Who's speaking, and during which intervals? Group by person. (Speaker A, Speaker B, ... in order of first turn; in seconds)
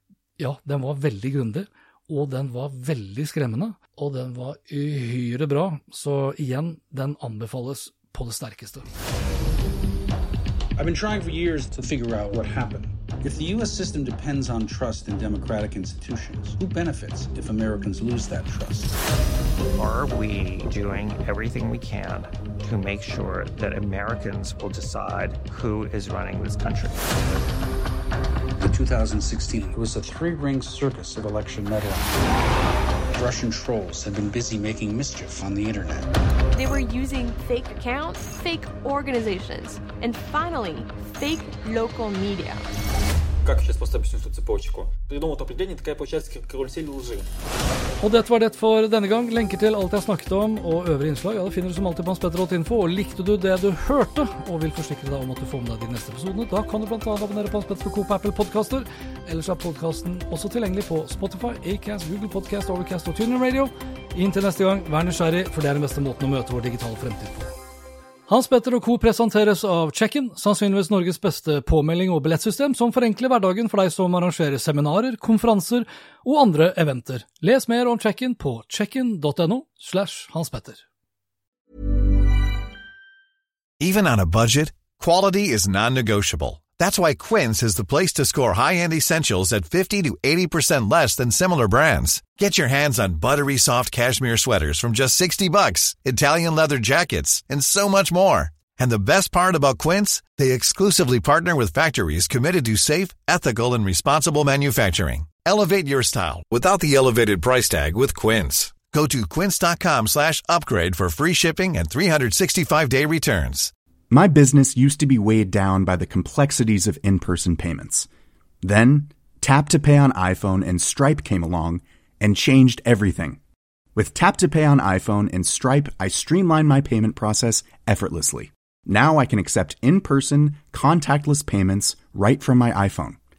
Speaker A: 0.4-8.9, 48.0-67.5, 68.3-80.8
Speaker B: 10.8-19.0, 28.6-32.2, 33.1-36.1
Speaker C: 19.7-27.5
Speaker D: 36.5-42.6
Speaker E: 43.4-47.2
Speaker F: 83.8-113.7
Speaker G: 114.1-118.1, 118.6-123.4, 123.9-133.2